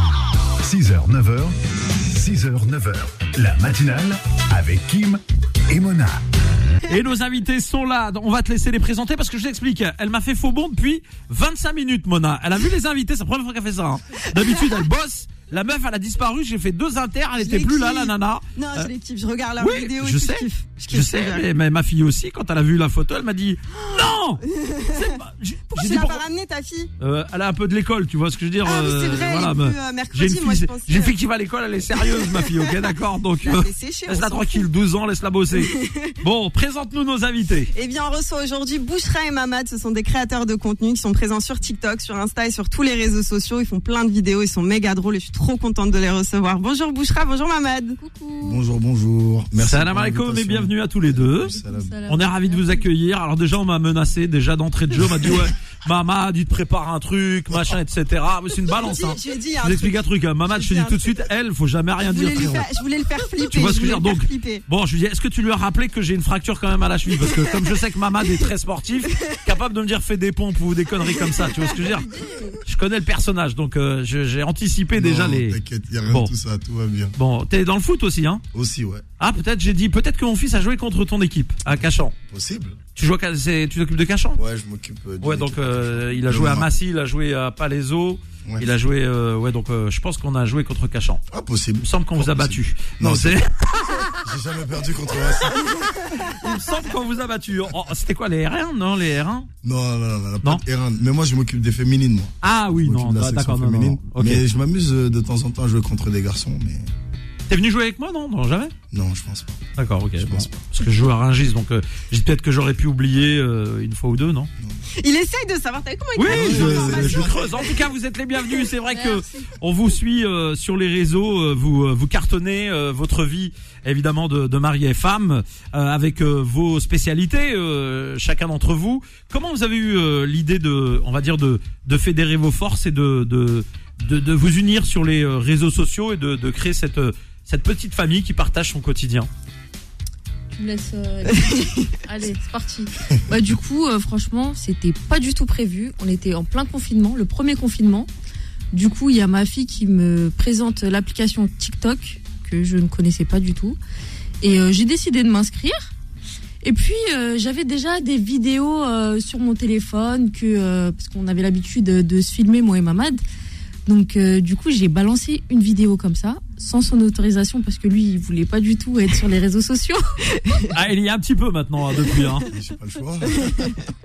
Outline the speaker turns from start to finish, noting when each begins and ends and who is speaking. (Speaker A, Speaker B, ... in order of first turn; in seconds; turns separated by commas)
Speaker A: 0.6-6.2, Speaker B: 6.9-18.9, Speaker C: 17.4-21.4, Speaker B: 19.6-26.2, Speaker C: 23.9-25.1, Speaker C: 25.7-26.9, Speaker B: 27.0-37.7, Speaker C: 28.6-31.1, Speaker C: 32.0-32.8, Speaker C: 33.4-34.6, Speaker C: 35.5-36.1, Speaker C: 37.7-48.0, Speaker D: 48.0-48.6, Speaker E: 48.4-52.0, Speaker B: 49.6-51.5, Speaker D: 51.5-52.9, Speaker B: 52.1-62.6, Speaker C: 58.6-61.2, Speaker C: 62.1-64.6, Speaker B: 63.4-75.6, Speaker C: 71.3-71.8, Speaker D: 72.2-72.6, Speaker E: 74.9-77.1, Speaker B: 77.2-78.4, Speaker E: 78.5-79.0, Speaker B: 79.2-82.1, Speaker E: 81.7-82.8, Speaker B: 83.0-84.4, Speaker E: 84.3-86.7, Speaker B: 85.2-91.2, Speaker E: 91.3-93.4, Speaker B: 91.8-94.2, Speaker E: 94.2-95.9, Speaker B: 95.4-99.5, Speaker E: 99.6-106.9, Speaker B: 102.4-104.4, Speaker B: 107.5-108.7, Speaker E: 108.9-110.7, Speaker B: 109.8-114.5, Speaker C: 115.0-117.8, Speaker B: 116.1-139.3, Speaker E: 116.2-117.7, Speaker D: 118.9-119.5, Speaker D: 140.5-148.1, Speaker C: 141.3-141.9, Speaker D: 148.7-153.8, Speaker D: 154.4-155.9, Speaker D: 156.6-163.2, Speaker D: 163.8-170.0, Speaker B: 170.7-172.5, Speaker E: 172.5-173.9, Speaker C: 173.3-173.8